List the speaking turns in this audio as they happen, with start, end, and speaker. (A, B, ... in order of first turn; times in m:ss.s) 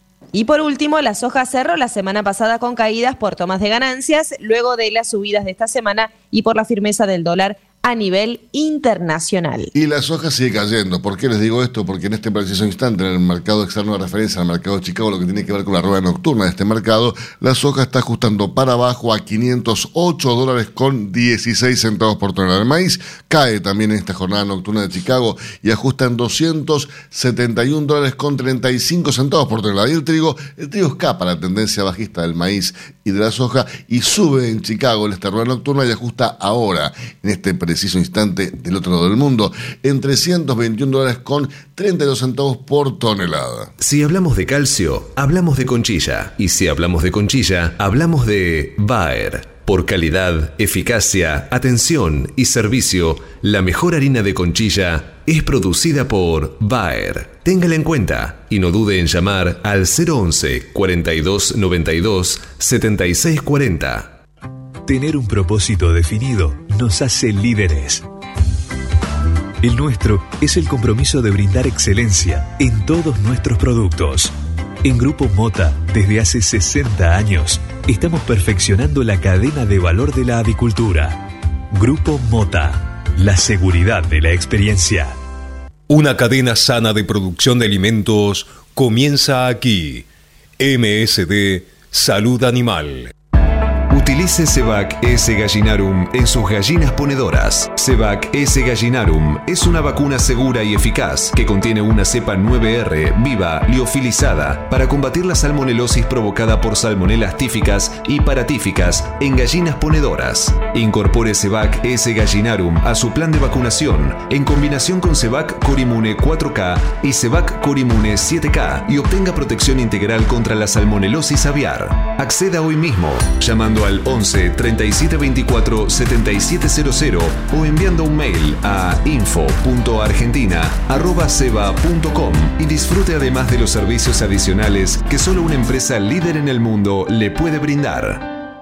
0:00.3-0:09.7 A
0:09.7-0:43.7 B
0:43.8-1:04.2 C
1:04.8-1:08.1 D
1:09.6-1:25.2 D
1:25.9-1:30.1 E
1:30.6-1:33.1 E
1:33.9-2:18.4 C